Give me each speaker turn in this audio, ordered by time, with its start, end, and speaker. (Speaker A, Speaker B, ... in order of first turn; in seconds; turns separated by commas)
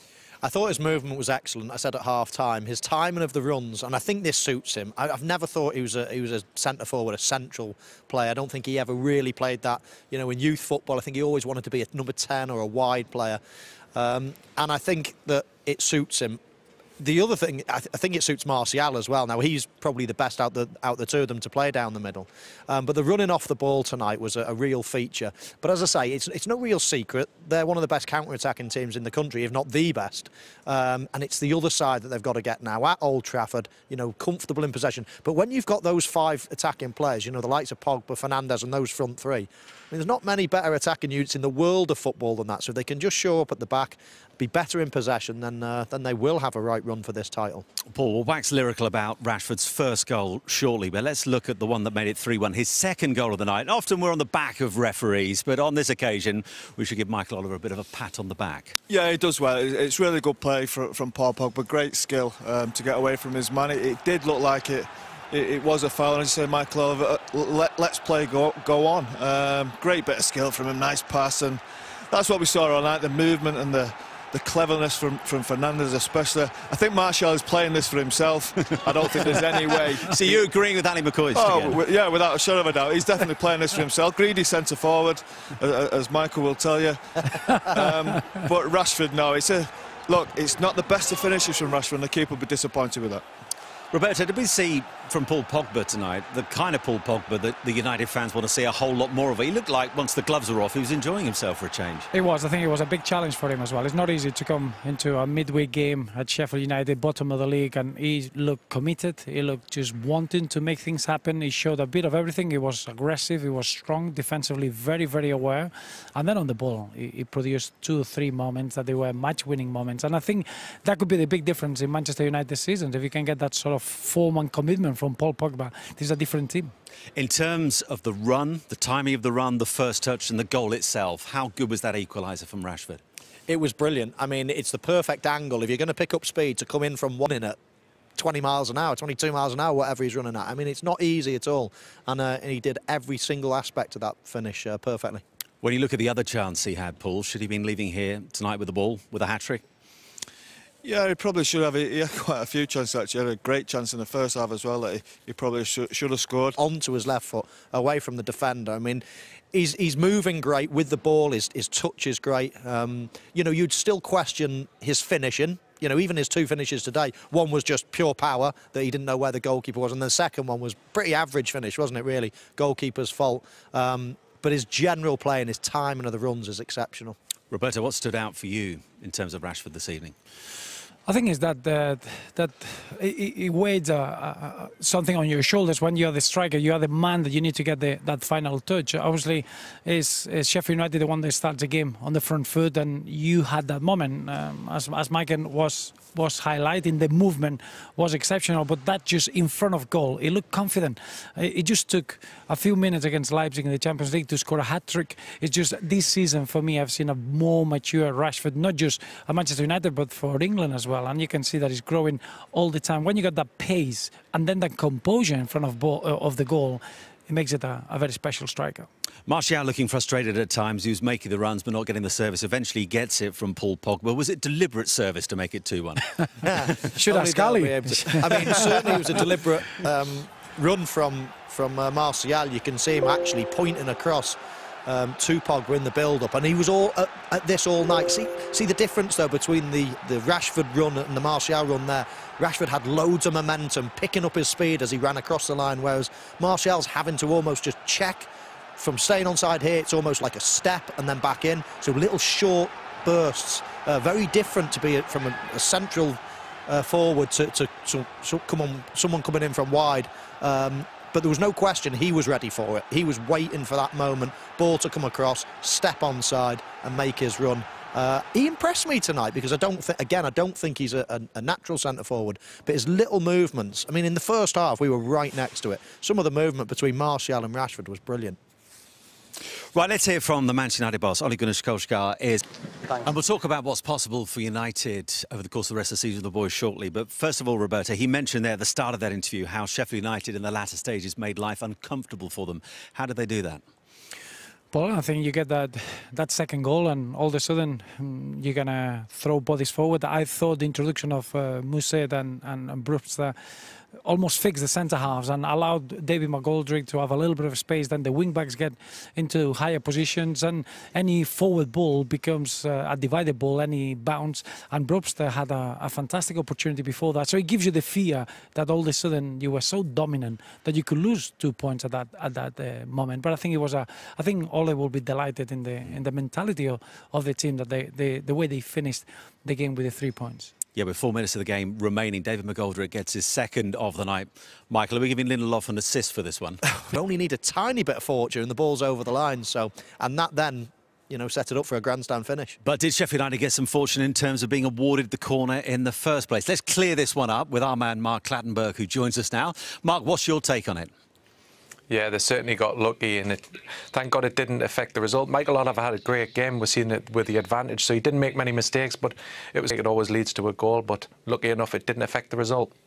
Speaker A: 0.4-13.4, Speaker A: 13.9-16.4, Speaker A: 17.0-47.6, Speaker B: 47.9-58.8, Speaker C: 58.9-80.2, Speaker B: 80.0-81.8, Speaker C: 81.3-93.2, Speaker B: 93.9-102.1, Speaker D: 102.1-126.7, Speaker B: 127.2-133.0, Speaker A: 133.5-137.6, Speaker A: 138.2-145.2, Speaker B: 145.6-149.6, Speaker C: 150.8-156.6, Speaker A: 156.6-177.2, Speaker B: 177.5-180.1, Speaker D: 181.1-218.9, Speaker B: 219.3-226.5, Speaker A: 226.4-248.3, Speaker D: 226.9-229.0, Speaker A: 248.8-278.4, Speaker B: 279.7-282.4, Speaker B: 283.0-293.6, Speaker D: 294.7-303.3, Speaker D: 304.0-330.5, Speaker B: 330.7-336.6, Speaker A: 336.9-342.6, Speaker B: 342.6-350.9, Speaker E: 351.9-362.7